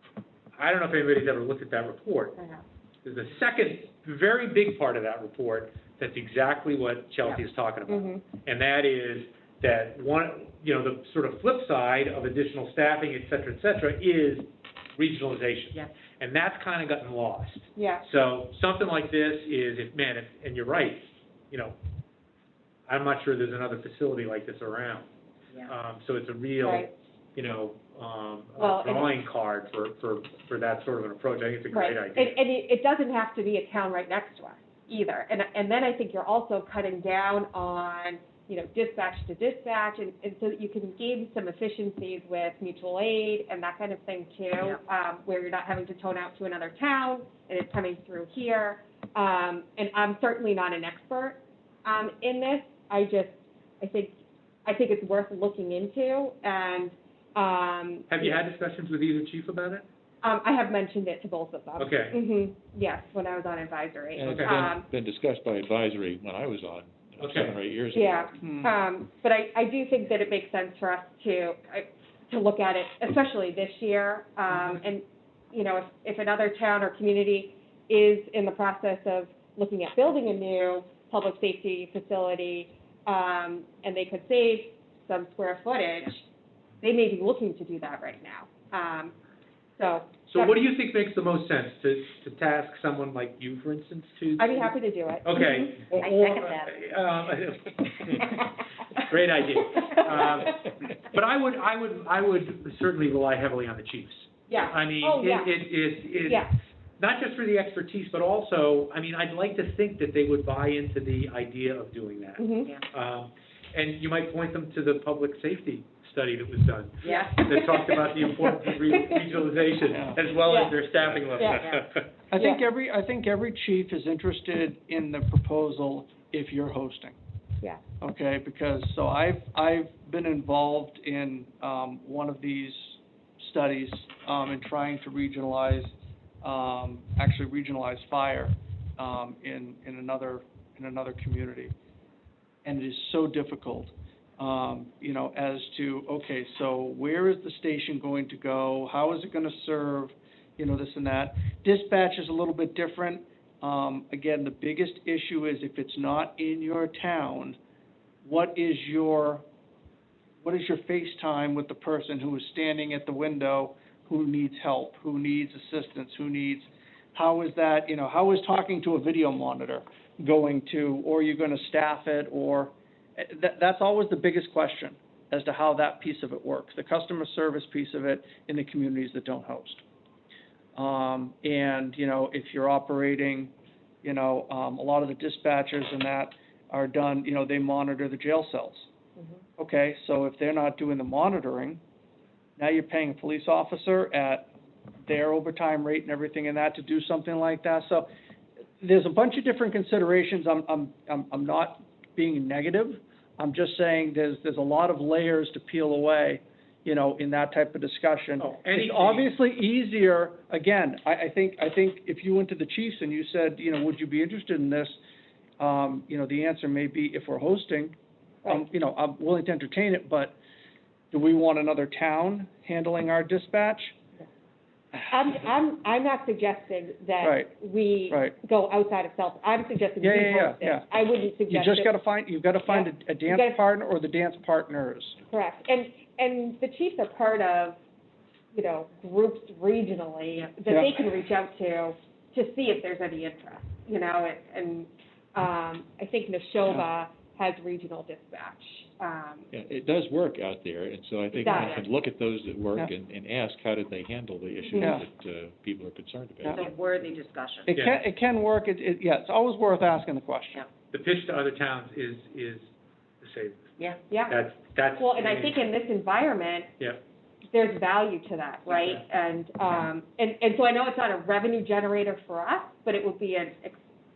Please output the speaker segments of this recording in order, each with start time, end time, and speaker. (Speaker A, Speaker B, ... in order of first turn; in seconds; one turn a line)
Speaker A: 0.6-2.4
Speaker B: 2.4-2.6
Speaker A: 3.0-21.8
Speaker B: 7.9-8.2
Speaker B: 17.8-18.0
Speaker A: 22.9-25.1
Speaker A: 25.6-32.4
Speaker B: 26.6-26.9
Speaker B: 28.6-29.1
Speaker B: 31.7-58.4
Speaker A: 58.1-59.9
Speaker B: 60.2-64.8
Speaker A: 61.8-62.2
Speaker C: 64.2-68.3
Speaker A: 64.3-64.5
Speaker A: 67.2-67.5
Speaker B: 67.9-86.2
Speaker D: 68.4-68.7
Speaker B: 86.8-89.1
Speaker B: 89.8-90.5
Speaker A: 90.3-106.4
Speaker B: 94.4-95.9
Speaker E: 95.9-96.7
Speaker B: 104.5-105.5
Speaker A: 107.0-122.0
Speaker B: 112.4-112.7
Speaker B: 117.1-118.1
Speaker D: 119.9-120.2
Speaker B: 120.4-120.8
Speaker C: 121.0-121.5
Speaker B: 121.4-121.7
Speaker E: 121.5-121.8
Speaker D: 122.3-127.2
Speaker B: 122.4-122.6
Speaker D: 128.0-141.8
Speaker D: 142.7-157.6
Speaker D: 158.2-159.4
Speaker D: 160.4-179.8
Speaker D: 180.8-183.5
Speaker D: 184.0-188.9
Speaker D: 189.6-191.8
Speaker D: 192.6-194.5
Speaker D: 195.0-198.1
Speaker D: 198.8-215.0
Speaker A: 208.4-209.3
Speaker D: 215.6-217.9
Speaker D: 218.5-220.4
Speaker D: 221.1-224.0
Speaker B: 225.1-231.9
Speaker D: 227.2-227.5
Speaker D: 228.1-228.3
Speaker D: 230.0-230.9
Speaker D: 231.5-235.2
Speaker B: 232.7-233.6
Speaker B: 235.3-237.8
Speaker B: 238.5-249.5
Speaker D: 240.7-240.9
Speaker C: 249.5-256.7
Speaker B: 251.4-251.9
Speaker B: 254.7-255.0
Speaker D: 254.8-255.0
Speaker E: 256.5-257.7
Speaker D: 257.7-260.6
Speaker A: 257.7-258.0
Speaker A: 260.9-262.7
Speaker A: 263.2-263.7
Speaker B: 264.1-264.4
Speaker A: 264.3-265.5
Speaker B: 265.0-266.7
Speaker B: 267.5-273.8
Speaker A: 268.7-269.0